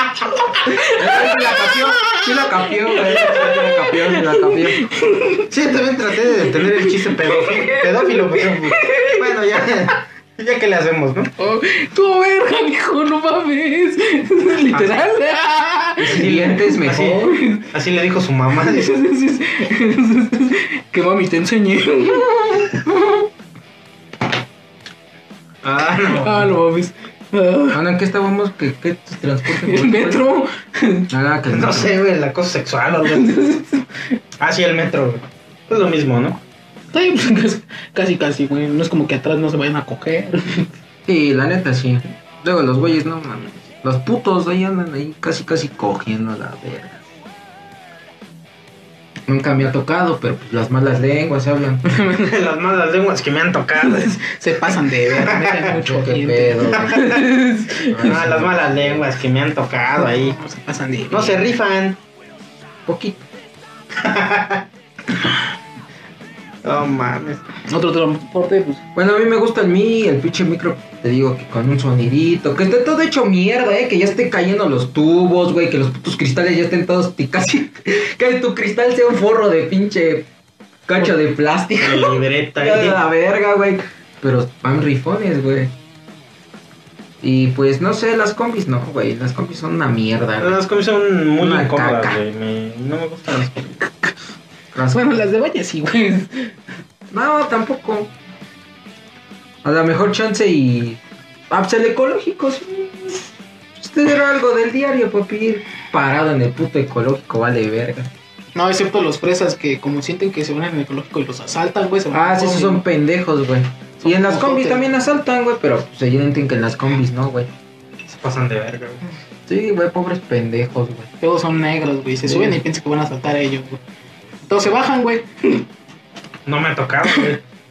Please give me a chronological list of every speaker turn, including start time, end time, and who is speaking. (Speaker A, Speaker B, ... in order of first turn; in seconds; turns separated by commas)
Speaker A: 0.5-5.5, Speaker B: 0.7-4.9, Speaker C: 3.0-3.7, Speaker C: 5.5-11.3, Speaker A: 6.5-9.3, Speaker A: 11.4-17.7, Speaker C: 14.7-15.1, Speaker B: 16.0-17.4, Speaker C: 16.1-18.9, Speaker A: 18.6-23.2, Speaker C: 25.6-26.5, Speaker A: 26.1-27.8, Speaker B: 27.7-30.3, Speaker A: 29.5-31.1, Speaker B: 31.1-32.0, Speaker C: 31.5-33.3, Speaker A: 33.0-34.1, Speaker C: 34.4-36.4, Speaker A: 36.9-40.7, Speaker B: 41.0-47.0, Speaker B: 49.3-52.0, Speaker A: 51.9-52.3, Speaker C: 52.2-54.2, Speaker A: 53.9-58.1, Speaker C: 55.2-55.6, Speaker B: 55.8-57.1, Speaker B: 57.9-59.1, Speaker C: 58.0-60.4, Speaker A: 60.0-61.5, Speaker C: 61.1-62.0, Speaker B: 62.9-63.2, Speaker C: 64.0-64.6, Speaker C: 66.6-67.4, Speaker A: 67.7-68.8, Speaker B: 69.0-80.3, Speaker B: 80.9-85.7, Speaker C: 81.8-83.0, Speaker B: 87.2-90.6, Speaker C: 90.4-93.8, Speaker B: 91.4-92.2, Speaker B: 94.7-95.3, Speaker A: 94.9-96.5, Speaker B: 97.1-98.1, Speaker B: 99.6-108.1, Speaker A: 108.5-112.8, Speaker B: 112.1-117.5, Speaker A: 114.0-114.9, Speaker C: 118.1-119.0, Speaker B: 119.5-121.1, Speaker A: 121.2-123.8, Speaker B: 122.3-122.6, Speaker A: 124.5-125.7, Speaker C: 126.5-127.4